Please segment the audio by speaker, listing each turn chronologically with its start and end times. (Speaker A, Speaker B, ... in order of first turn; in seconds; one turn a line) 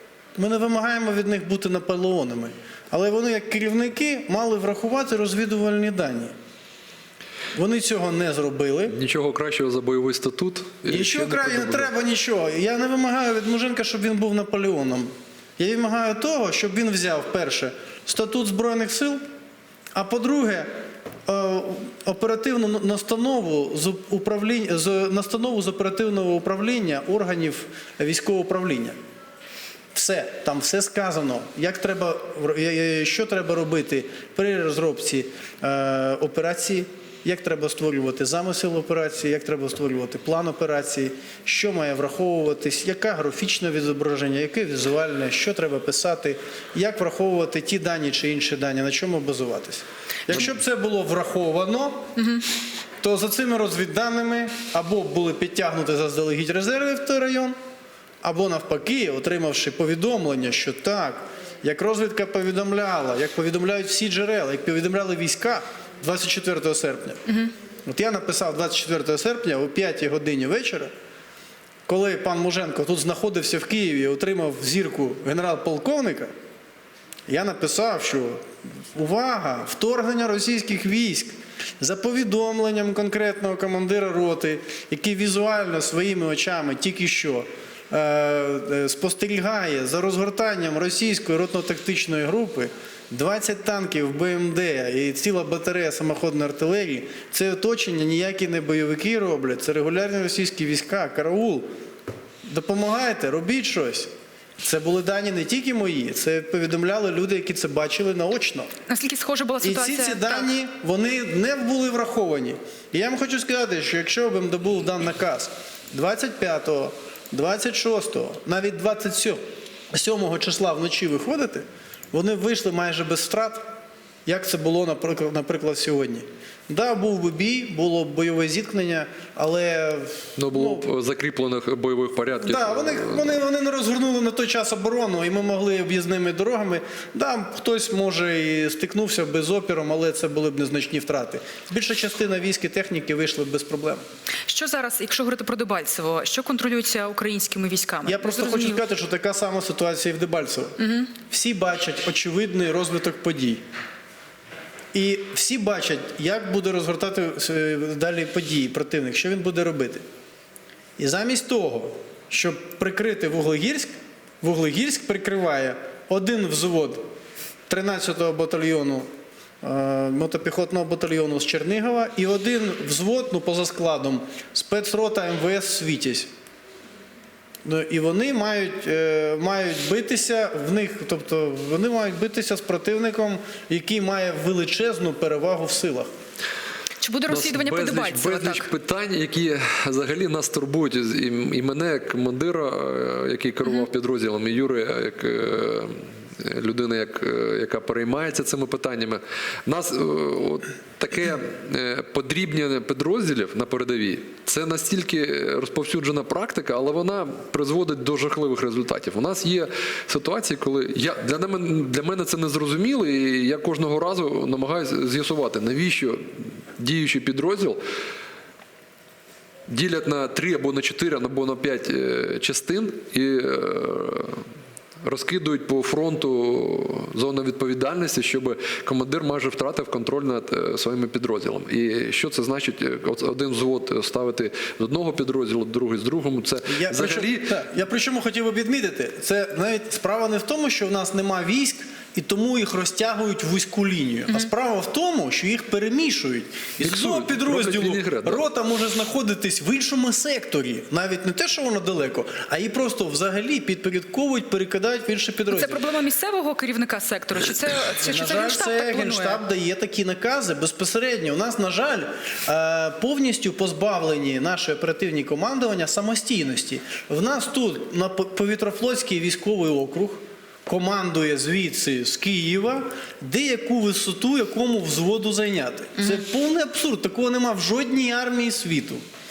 Speaker A: 0.3-6.3
Speaker A: 7.5-9.0
Speaker B: 8.9-11.9
Speaker A: 10.9-19.2
Speaker A: 19.9-20.7
Speaker A: 21.3-29.0
Speaker A: 29.9-52.1
Speaker A: 53.0-57.5
Speaker A: 58.2-67.2
Speaker A: 67.8-70.9
Speaker A: 71.9-76.3
Speaker A: 77.3-101.7
Speaker A: 102.5-104.1
Speaker A: 104.6-108.7
Speaker C: 108.9-110.5
Speaker A: 109.6-123.7
Speaker A: 124.3-130.9
Speaker B: 130.4-133.4
Speaker A: 132.4-144.0
Speaker C: 144.5-148.8
Speaker A: 148.1-153.6
Speaker C: 150.8-151.1
Speaker A: 154.9-160.1
Speaker A: 161.0-167.0
Speaker A: 167.7-169.1
Speaker A: 169.6-176.3
Speaker A: 177.7-186.1
Speaker C: 187.0-188.7
Speaker B: 187.3-217.8
Speaker B: 219.7-224.5
Speaker B: 225.0-237.6
Speaker A: 236.7-255.8
Speaker B: 246.8-248.4
Speaker C: 255.5-259.4
Speaker A: 258.0-279.0